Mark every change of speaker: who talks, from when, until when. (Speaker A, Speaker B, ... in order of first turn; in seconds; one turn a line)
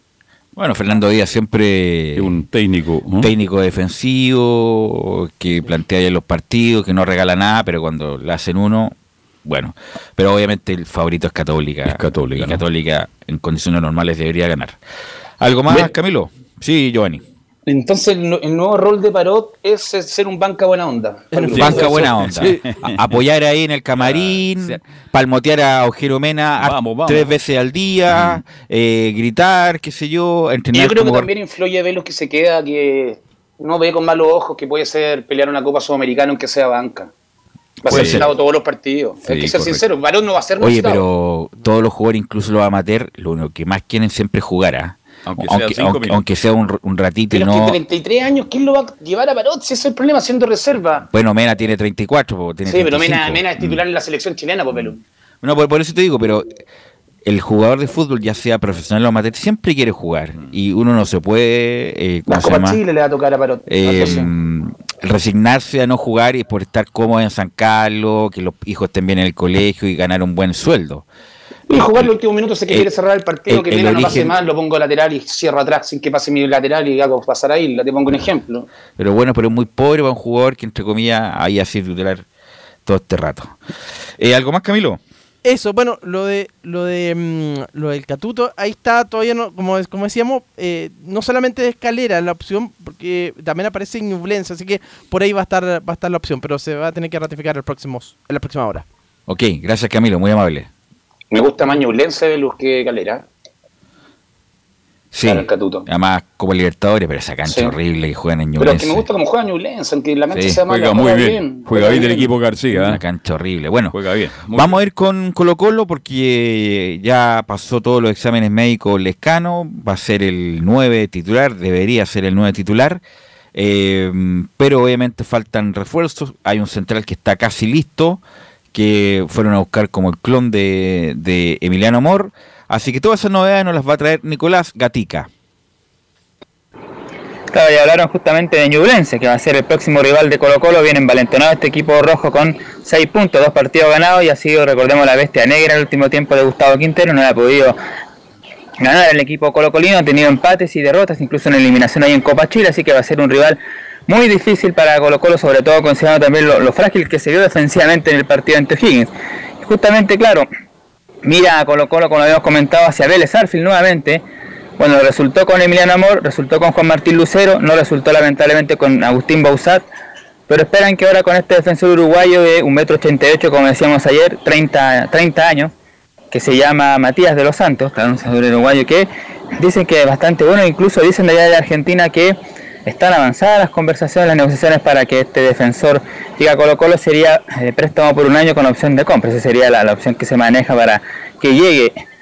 Speaker A: 0.6-2.3
Speaker B: 2.1-3.3
Speaker A: 3.2-14.8
Speaker B: 11.8-12.6
Speaker A: 15.4-17.2
Speaker C: 17.7-22.3
Speaker B: 21.5-23.0
Speaker A: 21.5-31.3
Speaker B: 23.9-24.8
Speaker B: 26.6-27.3
Speaker B: 28.1-28.4
Speaker C: 30.7-37.1
Speaker C: 37.8-41.0
Speaker B: 37.9-38.3
Speaker A: 37.9-38.3
Speaker B: 39.2-39.8
Speaker A: 40.6-47.8
Speaker B: 45.2-46.2
Speaker C: 47.3-51.0
Speaker A: 51.1-53.8
Speaker C: 52.6-55.0
Speaker A: 55.4-56.5
Speaker A: 57.2-62.8
Speaker C: 62.3-64.3
Speaker A: 63.6-71.0
Speaker C: 71.7-78.7
Speaker A: 71.7-72.1
Speaker A: 73.5-74.3
Speaker A: 79.0-82.2
Speaker A: 82.8-83.6
Speaker A: 84.2-85.0
Speaker D: 85.4-98.8
Speaker A: 99.3-100.7
Speaker C: 101.3-103.2
Speaker A: 105.1-109.0
Speaker C: 105.2-105.8
Speaker C: 107.5-107.7
Speaker C: 108.6-112.3
Speaker A: 110.3-110.6
Speaker B: 110.7-113.0
Speaker A: 112.7-113.9
Speaker B: 113.9-114.8
Speaker A: 114.5-123.0
Speaker A: 123.5-128.2
Speaker A: 128.7-135.3
Speaker E: 137.5-147.8
Speaker E: 148.8-159.1
Speaker E: 159.6-160.5
Speaker E: 161.2-164.2
Speaker E: 164.8-169.8
Speaker E: 170.5-175.7
Speaker E: 176.3-192.0